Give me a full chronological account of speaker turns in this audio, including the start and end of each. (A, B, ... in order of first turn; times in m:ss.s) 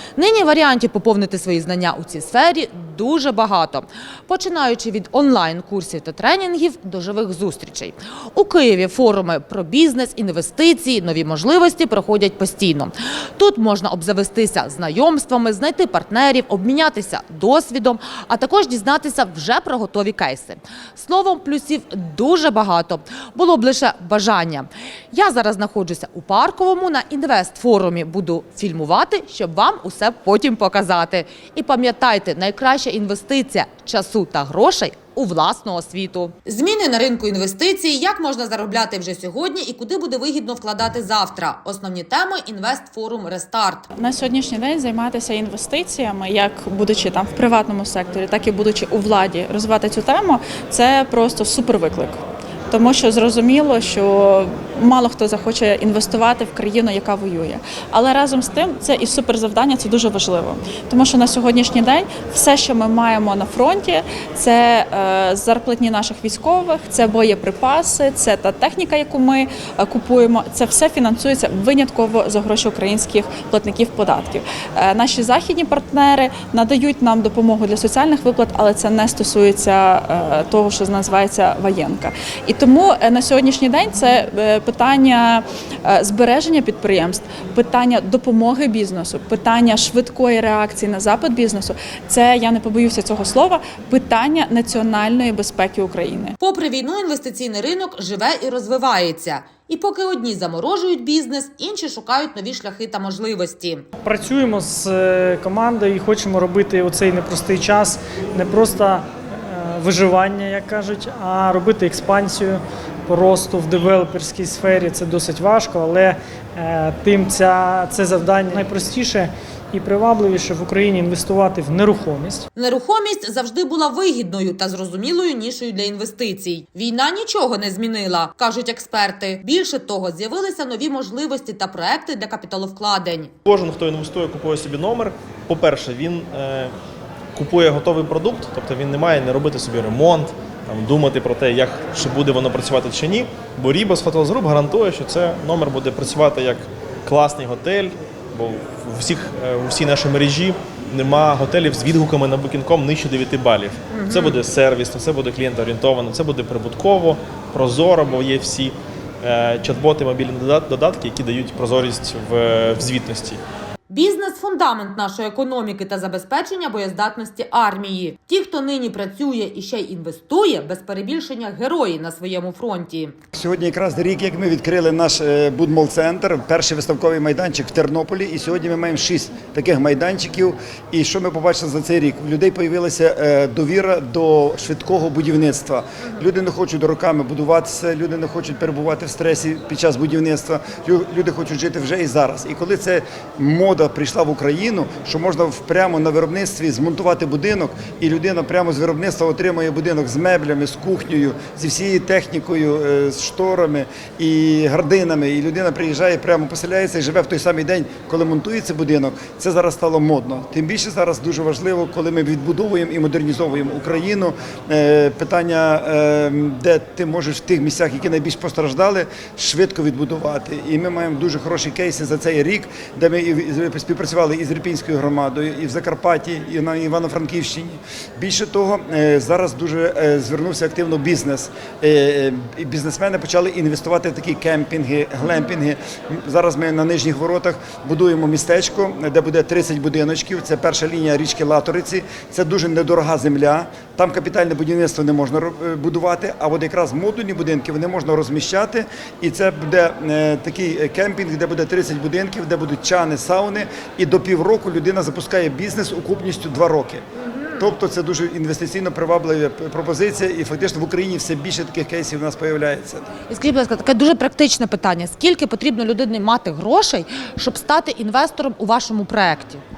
0:00.2-0:43.9 A
0:44.0-0:52.2 B
0:52.7-1:36.4 B
1:36.4-1:43.8 A
1:44.0-2:02.4 C
2:02.6-2:13.3 A
2:13.4-2:16.7 D
2:17.3-2:43.4 D
2:33.9-2:34.4 A
2:43.9-2:53.1 A
2:53.3-4:17.0 E
4:17.4-4:17.7 A
4:17.6-4:23.0 E
4:23.3-4:29.6 A